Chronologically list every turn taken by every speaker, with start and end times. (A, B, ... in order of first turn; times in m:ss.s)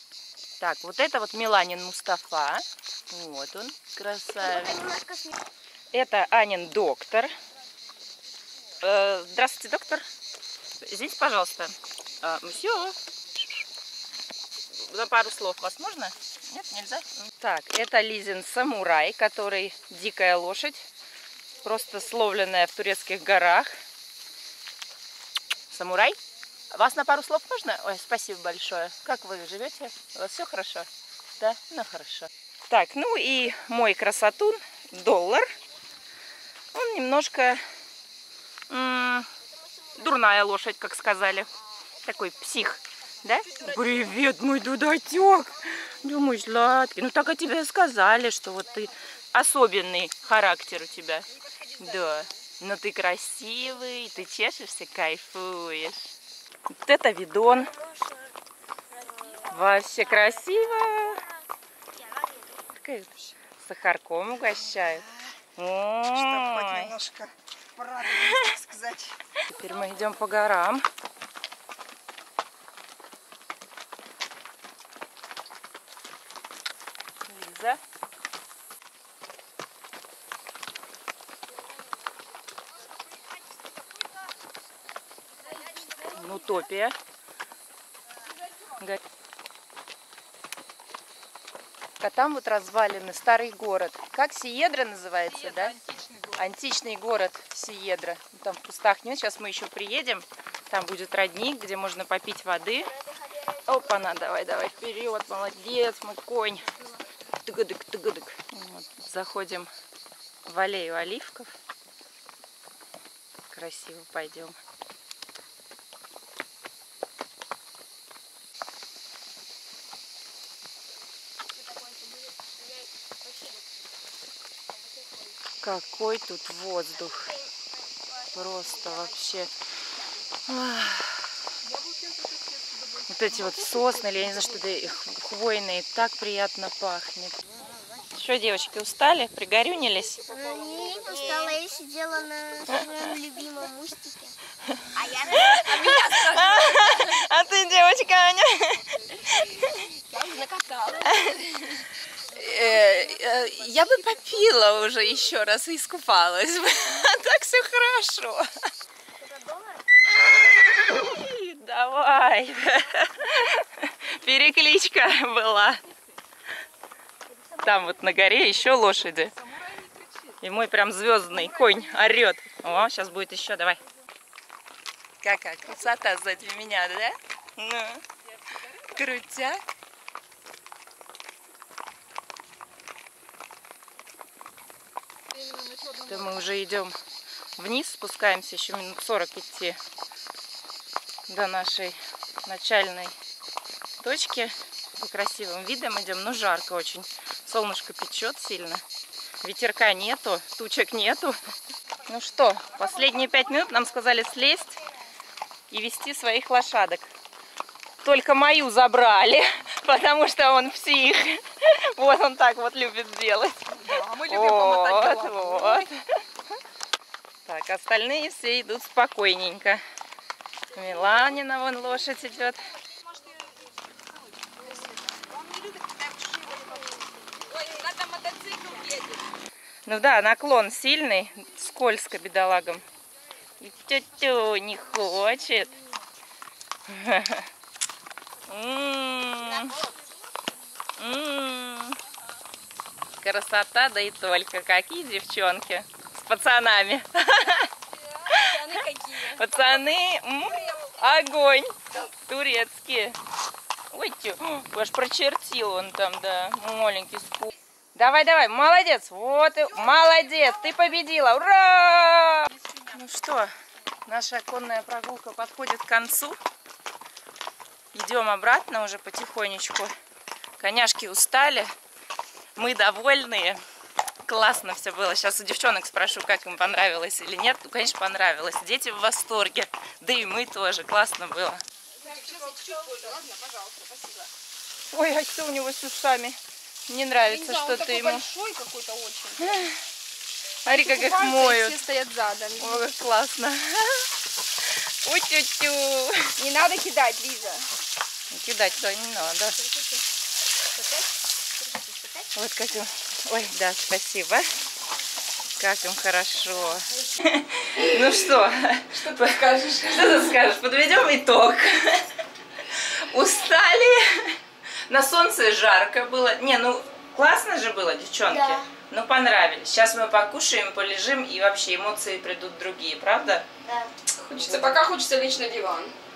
0:00.6-0:04.9 A
0:04.4-0:05.3 B
0:05.9-0:07.3 A
0:08.8-0:10.0 A
0:10.8-0:13.0 A
0:14.8-0:20.8 A
0:21.6-0:23.7 A
0:25.7-0:26.2 A
0:26.7-0:30.9 A
0:31.4-0:35.5 A
0:36.7-0:37.6 A
0:38.7-0:39.3 A
0:40.0-0:41.5 A
0:42.0-0:51.3 A
0:51.8-0:56.1 A
0:51.8-0:52.2 C
0:56.8-0:57.7 A
0:57.6-0:58.3 B
0:58.9-1:01.2 B
0:59.5-1:01.2 A
1:02.0-1:02.4 B
1:02.8-1:05.0 A
1:05.6-1:06.9 A
1:06.2-1:07.3 D
1:07.8-1:09.1 D
1:08.2-1:08.5 A
1:09.5-1:10.9 A
1:17.3-1:17.8 A
1:25.5-1:26.4 C
1:26.1-1:27.0 A
1:32.0-1:35.8 A
1:35.2-1:36.4 C
1:36.4-1:42.9 A
1:43.0-1:43.6 B
1:43.7-1:46.6 A
1:47.4-1:49.7 A
1:50.5-1:51.5 A
1:53.5-1:54.6 A
2:03.2-2:03.6 B
2:05.6-2:07.3 A
2:07.2-2:07.5 B
2:08.2-2:09.1 B
2:08.3-2:09.5 A
2:10.5-2:11.2 A
2:13.1-2:17.3 A
2:18.2-2:20.2 A
2:20.2-2:21.6 C
2:20.3-2:24.3 B
2:25.0-2:25.5 B
2:25.1-2:27.2 C
2:25.3-2:28.8 A
2:29.0-2:31.6 C
2:31.0-2:31.4 A
2:32.3-2:38.5 A
2:32.6-2:34.2 C
2:39.2-2:39.8 B
2:40.3-2:45.8 A
2:47.6-2:49.4 A
2:49.4-2:50.3 C
2:50.4-2:53.8 A
2:51.3-2:51.9 C
2:55.2-2:58.0 A
2:58.5-2:58.8 C
2:59.0-2:59.6 A
3:05.4-3:06.4 C
3:06.1-3:07.0 A
3:07.6-3:09.8 A
3:11.3-3:13.2 A
3:14.0-3:18.8 A
3:19.4-3:21.4 A
3:22.1-3:24.8 A
3:25.7-3:27.1 A
3:28.0-3:36.0 A
3:33.7-3:35.9 C
3:37.5-3:39.8 A
3:40.7-3:42.6 A
3:44.6-3:46.8 C
3:47.4-3:49.2 C
3:49.9-3:52.8 A
3:53.6-3:55.7 A
3:56.9-3:57.5 A
3:58.5-3:59.7 A
3:59.5-3:59.9 C
4:01.0-4:02.0 A
4:03.2-4:07.7 A
4:08.0-4:09.9 C
4:08.3-4:13.2 A
4:10.5-4:11.0 C
4:13.9-4:23.5 A
4:19.8-4:20.4 C
4:24.1-4:26.4 A
4:27.9-4:29.9 A
4:30.6-4:31.7 A
4:32.6-4:33.6 A
4:34.3-4:41.6 A
4:42.0-4:44.3 C
4:44.9-4:48.2 A
4:47.2-4:49.7 C
4:49.4-4:49.7 A
4:50.6-4:51.8 A
4:50.6-4:52.9 C
4:52.6-4:54.0 A
4:55.0-4:56.3 A
4:56.4-4:57.7 C
4:58.3-4:59.6 A
5:00.8-5:01.1 C
5:01.6-5:02.0 C
5:02.4-5:04.5 A
5:05.6-5:12.0 A
5:08.9-5:10.3 C
5:12.8-5:14.4 A
5:14.9-5:23.5 A
5:18.3-5:18.7 B
5:23.6-5:23.9 B
5:24.3-5:25.9 C
5:24.4-5:24.8 A